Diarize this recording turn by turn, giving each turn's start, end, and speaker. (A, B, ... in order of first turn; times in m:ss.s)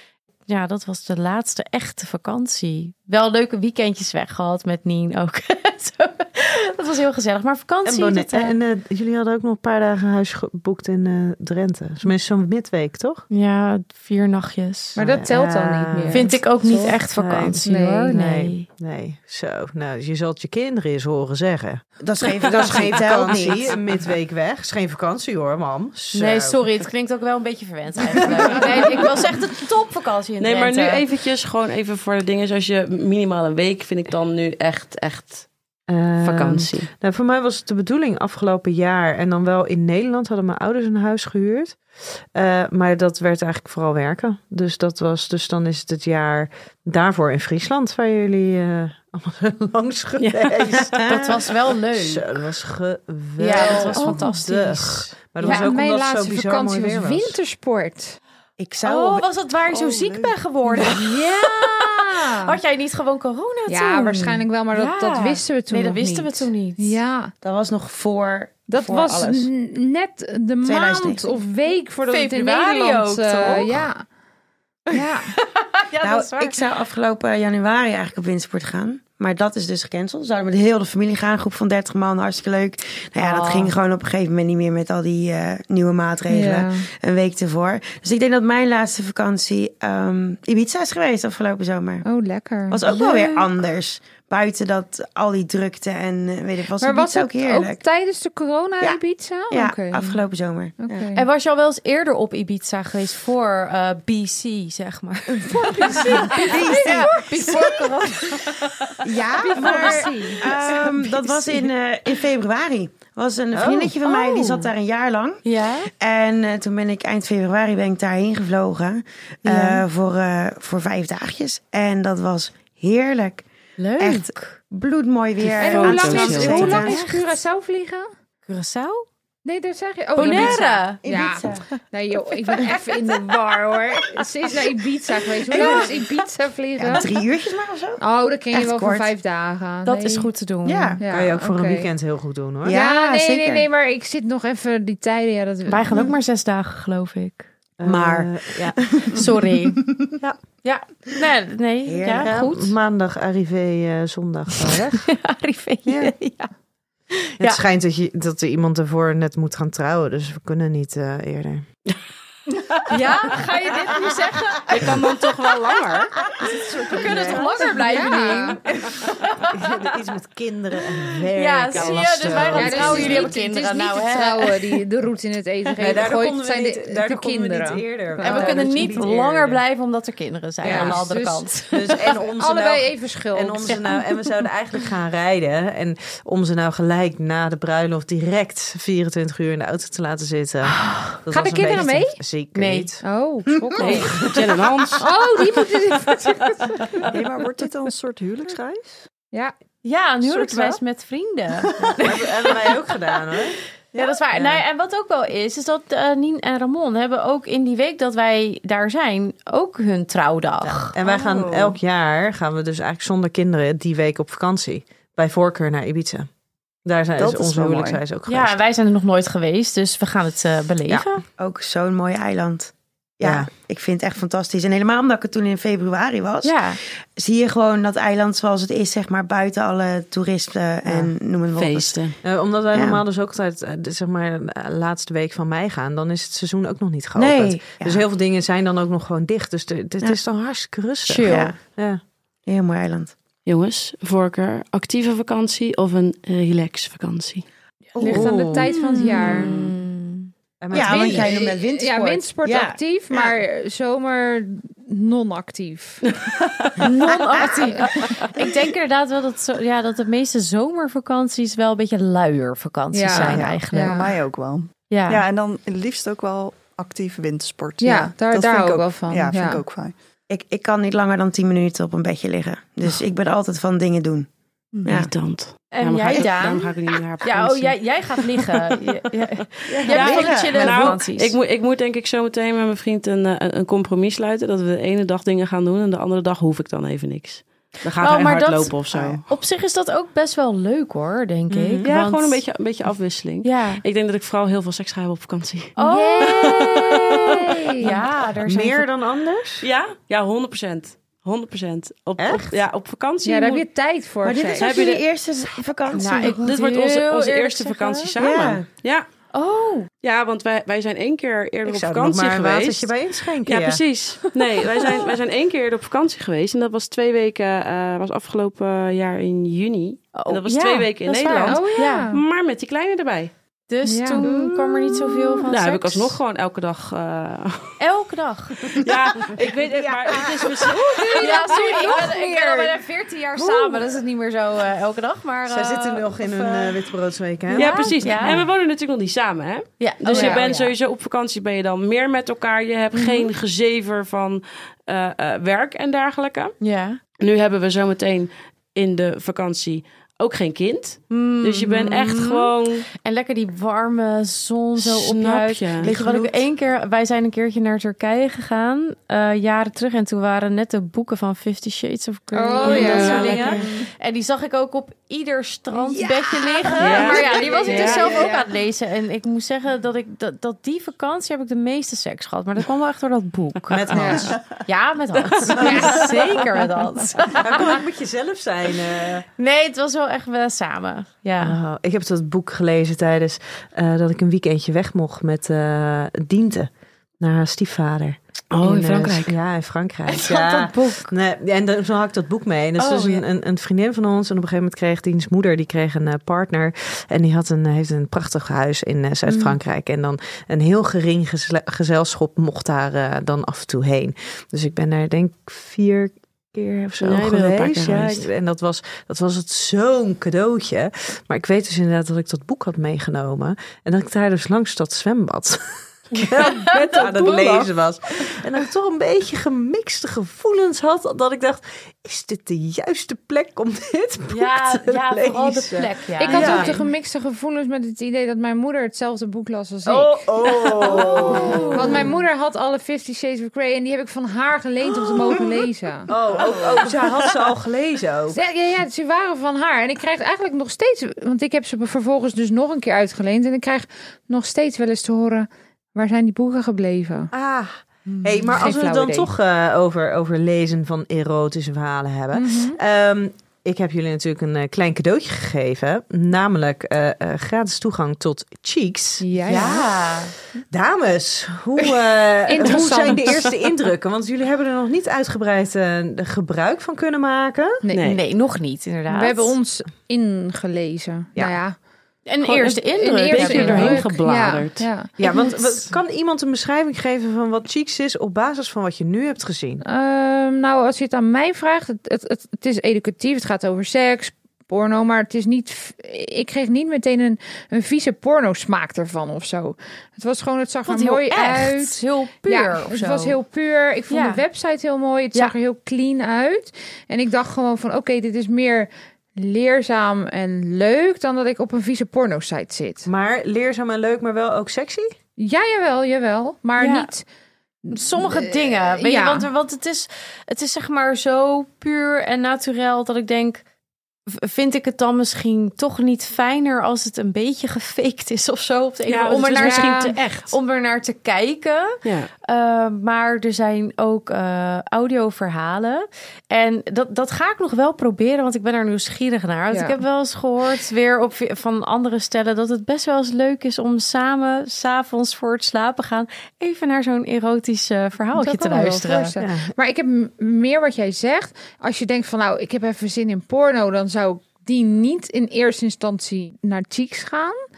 0:00.5-0:08.6 A
0:07.8-0:13.2 B
0:13.3-0:15.0 A
0:15.0-0:17.0 C
0:15.0-0:26.6 B
0:16.1-0:18.6 A
0:17.6-0:18.1 C
0:22.0-0:23.8 D
0:26.1-0:31.0 A
0:28.2-0:28.6 B
0:30.4-0:35.5 E
0:35.9-0:57.4 B
0:36.2-0:36.9 E
0:50.2-0:51.0 E
0:50.9-0:51.2 D
0:51.0-0:52.3 A
0:53.4-0:55.7 A
0:53.6-0:54.3 C
0:55.4-0:58.2 C
0:58.6-0:59.3 D
0:58.8-1:07.0 A
0:59.6-1:00.4 F
1:00.8-1:02.6 C
1:03.7-1:07.3 C
1:07.4-1:09.5 D
1:08.7-1:14.0 C
1:10.6-1:11.2 D
1:12.1-1:13.8 A
1:14.9-1:15.3 C
1:14.9-1:16.6 A
1:16.0-1:32.0 D
1:23.2-1:23.7 A
1:26.3-1:26.8 C
1:32.0-1:32.8 C
1:32.7-1:37.8 D
1:32.8-1:33.5 A
1:36.8-1:40.2 C
1:39.5-1:41.1 D
1:40.8-1:41.2 C
1:41.1-1:51.7 A
1:45.4-1:47.6 C
1:46.3-1:47.8 D
1:49.0-1:55.4 D
1:49.4-1:50.9 C
1:53.5-1:54.4 B
1:54.0-1:54.7 A
1:55.4-1:55.9 A
1:55.9-2:03.4 D
1:59.5-1:59.8 A
2:03.8-2:04.6 A
2:04.0-2:07.0 D
2:05.6-2:08.1 C
2:05.6-2:06.8 E
2:06.1-2:07.4 A
2:08.4-2:09.0 A
2:09.4-2:17.1 C
2:10.1-2:11.0 A
2:10.2-2:11.7 D
2:15.5-2:16.0 D
2:15.6-2:15.8 A
2:16.8-2:18.0 D
2:18.0-2:20.3 C
2:18.5-2:19.1 D
2:19.8-2:21.0 A
2:20.6-2:21.0 D
2:21.0-2:21.9 C
2:21.1-2:22.8 B
2:22.6-2:23.7 D
2:22.7-2:26.1 C
2:25.7-2:27.5 A
2:27.8-2:28.9 B
2:27.8-2:29.2 D
2:29.1-2:29.9 A
2:30.6-2:32.7 A
2:31.8-2:32.4 D
2:32.2-2:35.1 B
2:34.7-2:36.5 A
2:35.8-2:36.1 B
2:37.1-2:37.6 A
2:37.4-2:41.6 B
2:42.8-2:45.8 A
2:44.7-2:46.1 E
2:46.4-2:49.7 A
2:46.4-2:48.0 F
2:47.1-2:47.4 B
2:47.7-2:48.6 C
2:49.4-2:53.3 B
2:51.3-2:54.8 A
2:51.7-2:53.0 E
2:52.2-2:58.9 C
2:55.8-2:59.6 B
2:58.2-3:02.0 A
3:00.6-3:04.0 C
3:00.6-3:01.1 B
3:01.7-3:13.0 B
3:03.7-3:04.0 A
3:11.3-3:12.2 C
3:12.5-3:12.9 A
3:13.0-3:14.3 C
3:13.8-3:15.0 E
3:15.0-3:17.1 C
3:17.1-3:19.1 F
3:19.8-3:22.7 A
3:20.2-3:20.8 F
3:22.0-3:23.6 B
3:23.9-3:24.2 F
3:23.9-3:30.9 A
3:30.6-3:36.3 B
3:31.0-3:31.8 F
3:36.8-3:38.6 B
3:37.2-3:38.0 F
3:38.2-3:41.2 A
3:40.9-3:41.2 B
3:41.4-3:52.0 D
3:43.2-3:43.5 B
3:46.4-3:46.8 A
3:50.8-3:51.1 B
3:51.5-3:52.2 E
3:52.2-4:02.0 B
3:52.7-3:53.0 D
3:57.2-3:58.0 D
4:01.0-4:01.5 A
4:01.2-4:01.6 D
4:02.4-4:03.1 D
4:03.4-4:07.4 E
4:08.0-4:09.6 C
4:08.0-4:10.3 A
4:08.0-4:08.7 B
4:10.6-4:11.4 B
4:10.7-4:13.3 D
4:10.8-4:18.2 C
4:16.8-4:24.1 A
4:22.9-4:24.1 C
4:23.3-4:29.9 F
4:24.9-4:25.2 A
4:27.8-4:29.6 C
4:30.3-4:34.3 D
4:34.8-4:35.1 D
4:34.9-4:38.8 E
4:35.7-4:41.4 A
4:39.8-4:40.6 D
4:39.8-4:40.3 F
4:39.8-4:49.2 E
4:48.0-4:52.4 A
4:48.9-4:49.2 D
4:51.5-4:51.9 B
4:51.8-4:57.4 E
4:53.4-4:53.8 A
4:55.8-4:56.6 A
4:55.8-4:58.0 C
4:57.8-4:58.9 A
4:58.4-4:59.7 B
4:59.6-5:03.6 E
5:02.2-5:02.6 B
5:03.2-5:04.7 C
5:04.2-5:06.4 D
5:04.6-5:05.0 E
5:05.9-5:08.1 A
5:06.2-5:09.0 E
5:08.2-5:08.6 D
5:09.3-5:09.9 A
5:10.0-5:12.9 E
5:11.6-5:13.8 B
5:13.4-5:23.3 E
5:20.1-5:22.1 A
5:21.4-5:22.2 C
5:23.7-5:26.2 A
5:23.8-5:24.5 C
5:25.4-5:27.8 E
5:27.8-5:28.9 A
5:28.7-5:31.6 E
5:30.7-5:32.8 C
5:31.1-5:36.8 A
5:33.4-5:33.8 B
5:35.5-5:38.5 B
5:37.5-5:38.4 A
5:37.5-5:46.6 E
5:39.8-5:40.7 A
5:40.1-5:40.5 C
5:42.9-5:43.3 A
5:46.6-5:47.0 A
5:47.2-5:52.9 E
5:51.1-6:17.8 A
5:54.8-5:55.9 E
5:55.9-5:56.3 D
6:02.3-6:03.8 C
6:02.6-6:03.6 E
6:06.8-6:08.3 E
6:06.8-6:08.4 C
6:13.7-6:14.4 B
6:13.9-6:14.3 C
6:15.2-6:15.9 E
6:15.6-6:16.4 C
6:17.3-6:19.2 B
6:19.4-6:21.6 A
6:21.4-7:06.8 B
6:28.5-6:29.4 E
6:30.1-6:31.1 A
6:32.8-6:33.2 A
6:47.0-6:48.3 E
6:56.3-6:56.7 A
6:56.6-6:57.7 E
7:04.3-7:06.9 A
7:06.2-7:16.1 C
7:09.8-7:12.1 B
7:10.8-7:12.0 A
7:16.1-7:18.4 B
7:18.3-7:27.3 C
7:27.3-7:39.8 B
7:28.5-7:29.3 C
7:32.3-7:32.8 C
7:39.2-7:39.9 C
7:39.4-7:40.3 A
7:40.7-7:47.8 B
7:42.5-7:43.5 C
7:47.8-7:48.1 C
7:47.9-7:48.2 E
7:48.0-7:49.6 A
7:49.1-7:51.8 C
7:52.2-7:54.1 A
7:52.4-7:54.9 E
7:52.8-7:55.6 C
7:55.2-7:59.8 B
7:59.8-8:23.0 C
8:10.8-8:13.4 A
8:14.1-8:14.4 A
8:23.0-8:25.2 B
8:25.4-8:27.2 C
8:26.8-8:27.1 A
8:27.9-8:29.5 C
8:27.9-8:33.6 A
8:34.3-8:59.3 A
8:39.1-8:40.6 E
8:39.6-8:40.1 C
8:42.0-8:42.3 E
8:49.7-8:50.0 C
8:58.3-9:07.6 C
8:59.4-8:59.7 B